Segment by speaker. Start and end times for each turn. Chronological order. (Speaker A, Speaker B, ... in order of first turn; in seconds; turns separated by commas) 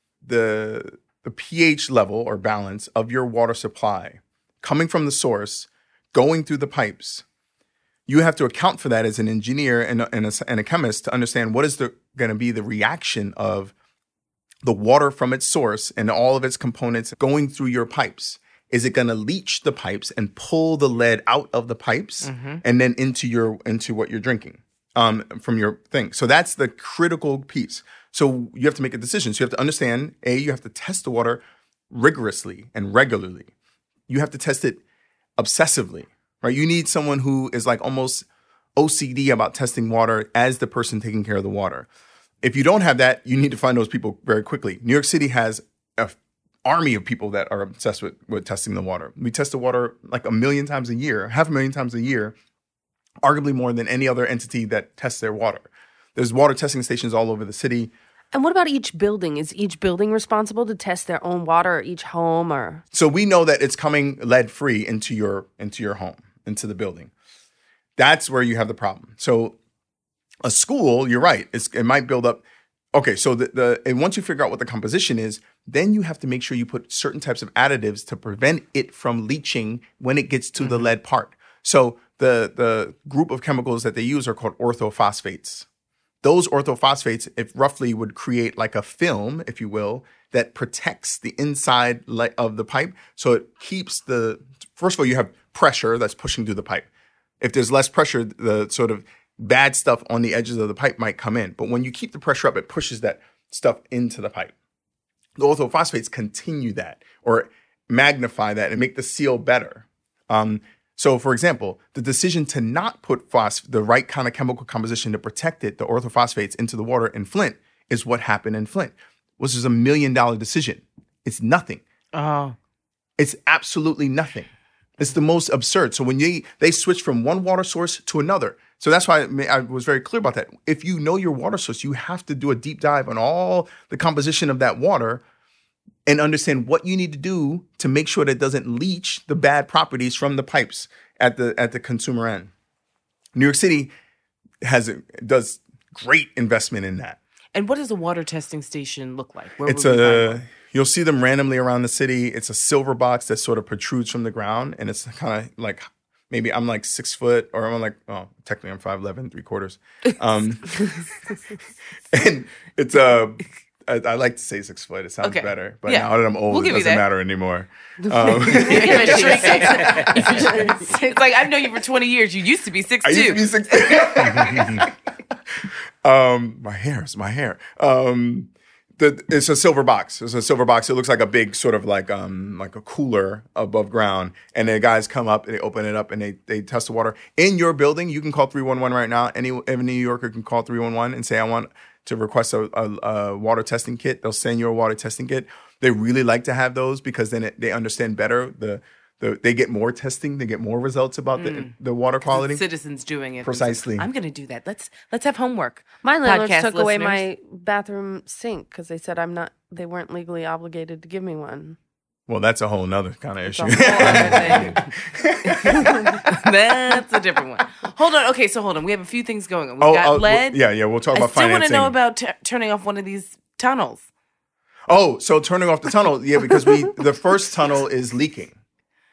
Speaker A: 0.2-7.2, Speaker A: 8.1-13.7, Speaker A: 14.6-33.5, Speaker B: 22.2-22.6, Speaker A: 34.1-34.8, Speaker A: 35.4-41.9, Speaker A: 42.4-52.4, Speaker A: 53.2-57.9, Speaker C: 58.3-62.8, Speaker A: 62.9-67.1, Speaker A: 68.0-69.6, Speaker A: 70.4-85.7, Speaker B: 80.6-80.9, Speaker A: 86.2-96.9, Speaker A: 97.4-104.5, Speaker A: 105.4-121.8, Speaker B: 122.1-122.6, Speaker A: 123.2-135.2, Speaker A: 136.1-142.5, Speaker A: 143.3-143.9, Speaker A: 144.6-147.2, Speaker B: 147.5-150.4, Speaker A: 149.6-161.0, Speaker A: 162.1-170.7, Speaker B: 165.2-167.1, Speaker C: 168.1-170.7, Speaker B: 168.5-173.5, Speaker A: 173.0-174.9, Speaker A: 175.6-202.6, Speaker B: 201.3-201.8, Speaker B: 202.3-207.2, Speaker A: 203.4-204.1, Speaker C: 206.0-211.8, Speaker A: 212.3-216.2, Speaker C: 213.5-214.8, Speaker B: 213.8-214.8, Speaker B: 215.5-224.1, Speaker C: 215.6-216.2, Speaker A: 219.8-222.0, Speaker A: 224.9-228.6